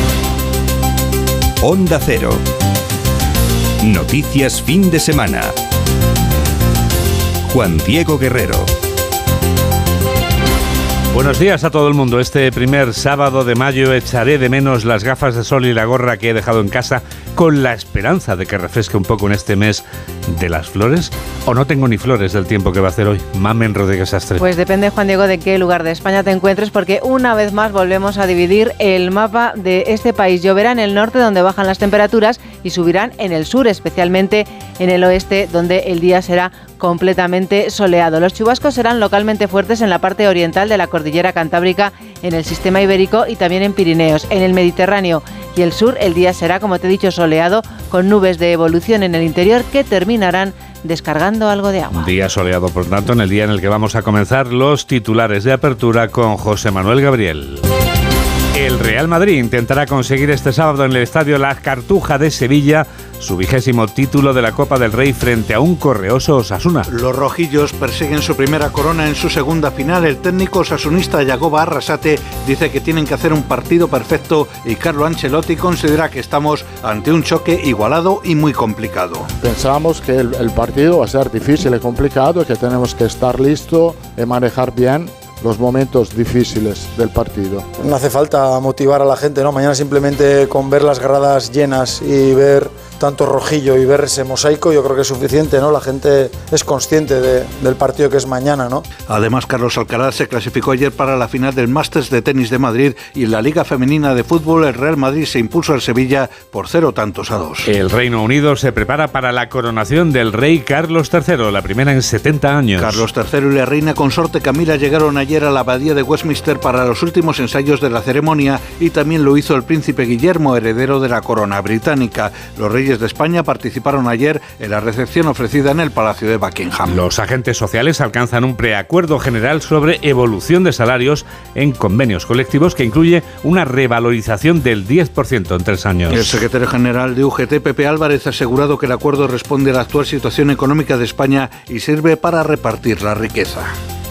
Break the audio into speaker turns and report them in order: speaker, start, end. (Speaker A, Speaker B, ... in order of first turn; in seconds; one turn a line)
Speaker A: 1.6-2.4
Speaker A: 3.8-5.5
Speaker A: 7.5-8.7
Speaker B: 11.1-24.4
Speaker C: 24.4-52.1
Speaker B: 52.0-57.7
Speaker B: 58.5-66.9
Speaker D: 66.9-79.3
Speaker E: 79.4-87.7
Speaker F: 87.8-98.8
Speaker D: 99.1-107.7
Speaker B: 107.7-113.0
Speaker D: 112.8-127.0
Speaker B: 126.9-136.4
Speaker D: 136.1-143.7